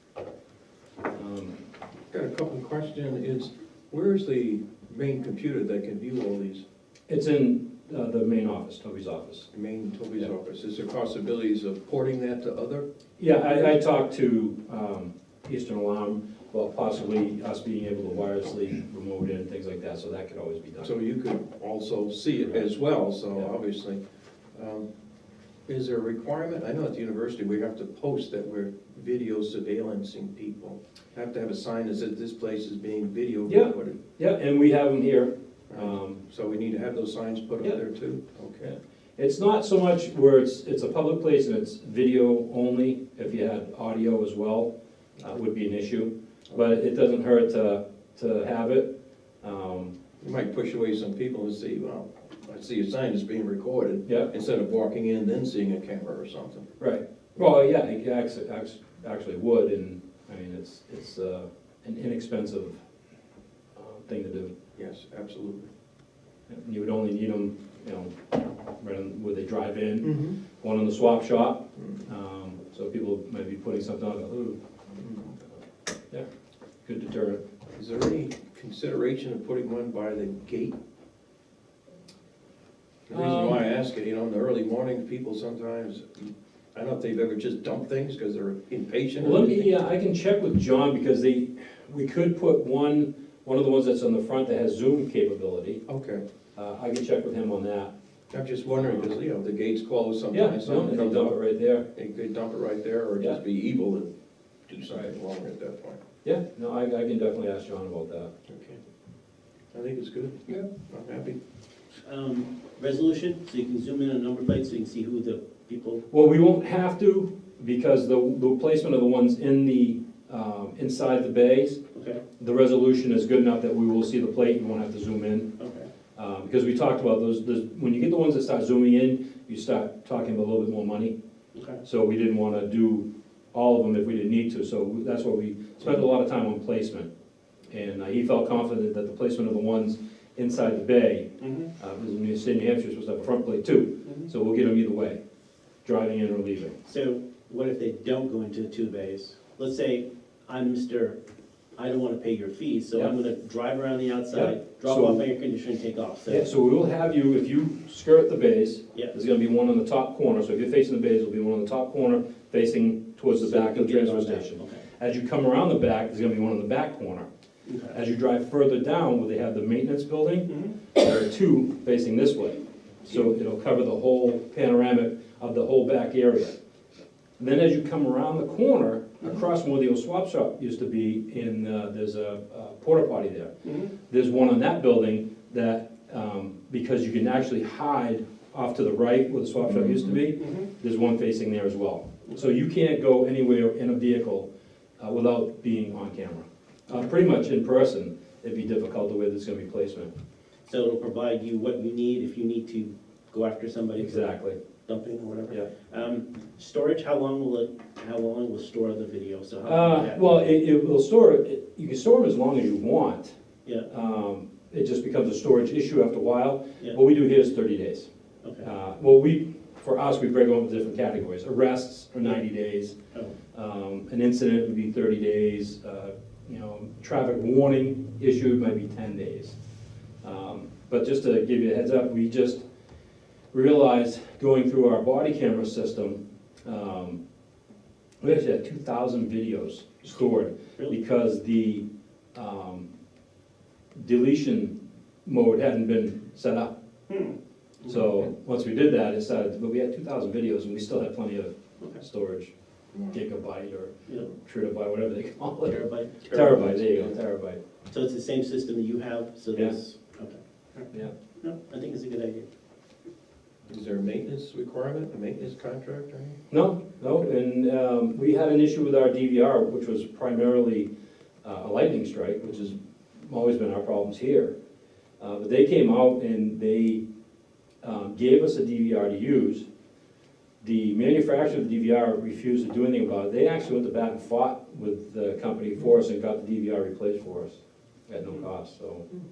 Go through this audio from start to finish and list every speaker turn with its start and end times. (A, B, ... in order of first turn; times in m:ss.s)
0:01.1-0:01.6 A
0:02.1-0:06.6 B
0:07.1-0:09.5 A
0:09.5-0:12.8 B
0:13.2-0:20.9 A
0:20.8-0:24.0 B
0:24.5-0:24.8 B
0:25.7-0:34.0 B
0:33.5-0:36.2 A
0:35.7-0:38.7 B
0:38.6-0:49.9 A
0:50.2-0:56.7 B
0:54.0-0:54.3 A
0:56.8-1:02.8 A
1:03.8-1:04.5 A
1:04.8-1:05.7 B
1:06.5-1:08.1 A
1:08.8-1:14.6 A
1:10.0-1:10.4 B
1:15.0-1:15.3 B
1:16.8-1:17.4 A
1:17.8-1:20.8 B
1:23.1-1:29.7 B
1:23.1-1:23.6 A
1:29.2-1:35.8 A
1:35.9-1:36.2 B
1:36.6-1:37.9 A
1:38.3-1:41.4 B
1:40.3-1:41.9 A
1:41.9-1:44.1 B
1:44.7-1:46.0 B
1:46.2-1:48.3 A
1:48.5-1:48.8 B
1:49.7-1:51.4 B
1:52.0-1:56.0 C
1:56.1-2:01.8 A
2:01.9-2:02.2 C
2:02.4-2:05.5 A
2:05.6-2:05.9 C
2:06.1-2:11.1 A
2:11.5-2:11.8 C
2:11.8-2:17.1 A
2:17.7-2:25.2 A
2:21.4-2:21.7 C
2:25.8-2:26.8 A
2:26.8-2:31.2 C
2:31.8-2:36.5 C
2:34.3-2:35.2 A
2:36.3-2:47.3 A
2:43.3-2:44.8 C
2:47.6-2:48.0 C
2:47.9-2:56.6 A
2:57.4-3:20.1 A
3:10.4-3:10.6 C
3:20.6-3:24.2 C
3:24.0-3:24.6 A
3:24.8-3:30.4 C
3:29.6-3:33.3 A
3:33.9-3:38.1 A
3:38.6-3:43.0 A
3:43.5-3:49.6 A
3:50.2-3:52.6 A
3:53.5-3:57.2 A
3:58.2-4:02.9 A
4:03.9-4:06.7 A
4:07.1-4:07.3 C
4:07.8-4:12.5 A
4:12.9-4:13.2 B
4:13.1-4:17.6 A
4:15.6-4:17.0 C
4:17.9-4:20.9 C
4:21.4-4:22.4 C
4:23.7-4:26.4 B
4:26.5-4:30.9 A
4:31.4-4:34.5 A
4:35.2-4:37.0 A
4:37.8-4:39.7 A
4:40.6-4:49.0 A